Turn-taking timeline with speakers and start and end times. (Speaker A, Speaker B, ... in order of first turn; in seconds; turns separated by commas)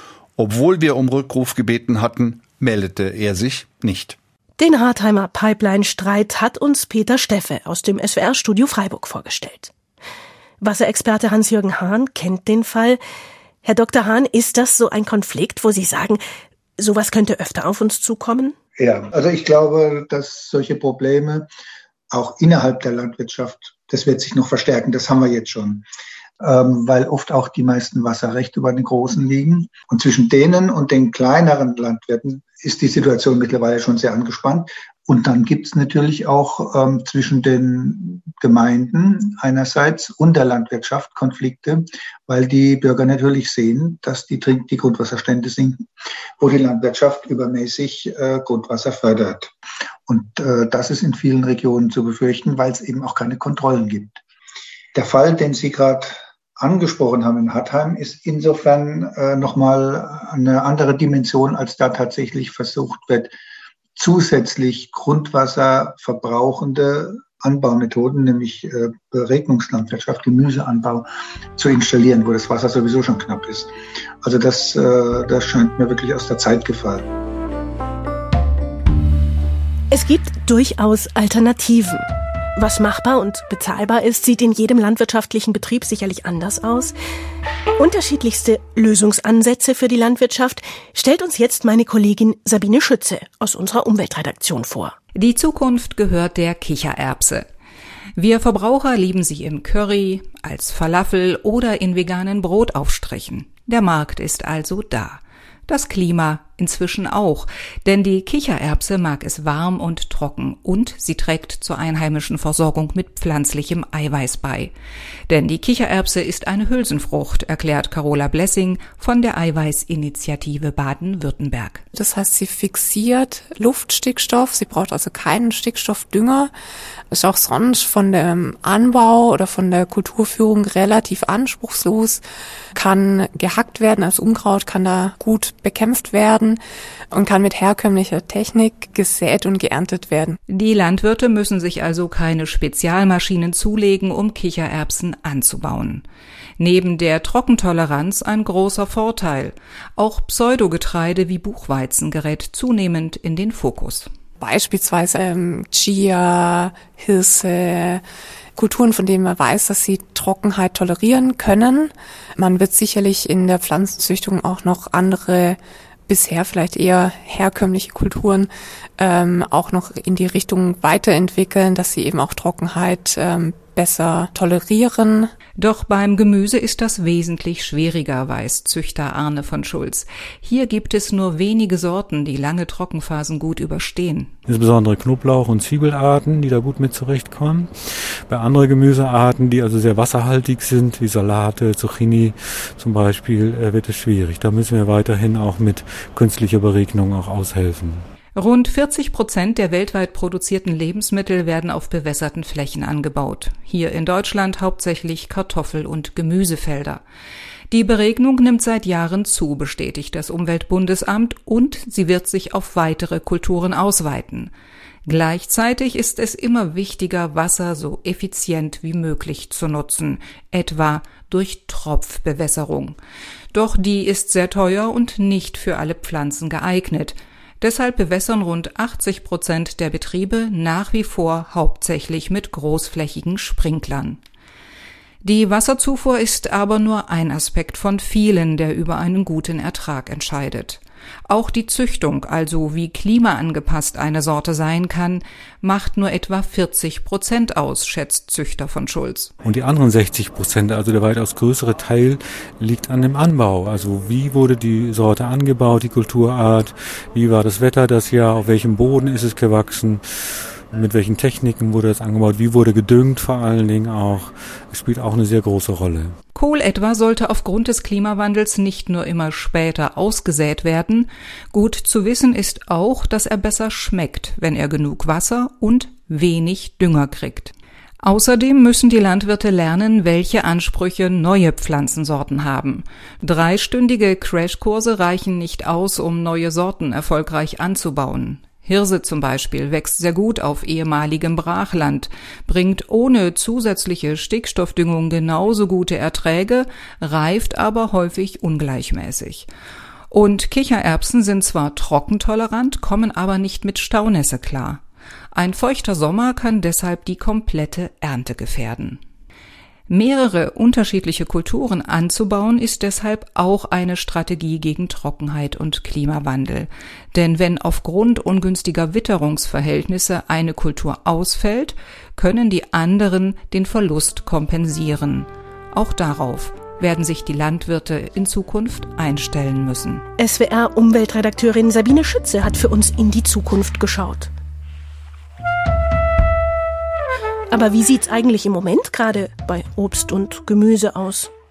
Speaker A: 0.4-4.2, Speaker B: 4.6-9.7, Speaker B: 10.6-13.0, Speaker B: 13.6-16.2, Speaker B: 16.8-18.5, Speaker C: 18.8-21.5, Speaker C: 22.1-25.9, Speaker C: 26.4-45.9, Speaker C: 46.4-49.5, Speaker C: 50.1-54.2, Speaker C: 54.9-63.3, Speaker C: 64.0-77.1, Speaker B: 79.9-82.0, Speaker B: 82.5-86.9, Speaker B: 87.8-95.0, Speaker D: 95.1-97.5, Speaker D: 98.2-114.7, Speaker D: 115.3-121.8, Speaker E: 121.9-126.5, Speaker E: 127.1-132.2, Speaker E: 132.7-136.6, Speaker E: 137.1-140.4, Speaker D: 140.5-146.0, Speaker D: 146.6-154.1, Speaker E: 154.4-158.0, Speaker E: 158.6-175.3, Speaker D: 175.6-184.3, Speaker F: 184.5-187.8, Speaker F: 188.3-198.1, Speaker D: 198.3-207.0, Speaker D: 207.7-214.5, Speaker D: 215.1-223.0, Speaker D: 223.5-234.2, Speaker D: 235.2-249.3, Speaker F: 249.4-260.0, Speaker F: 260.7-266.2, Speaker D: 266.3-299.5, Speaker D: 300.1-304.8, Speaker D: 305.3-309.0, Speaker D: 309.9-330.0, Speaker B: 330.2-334.3, Speaker B: 337.5-341.3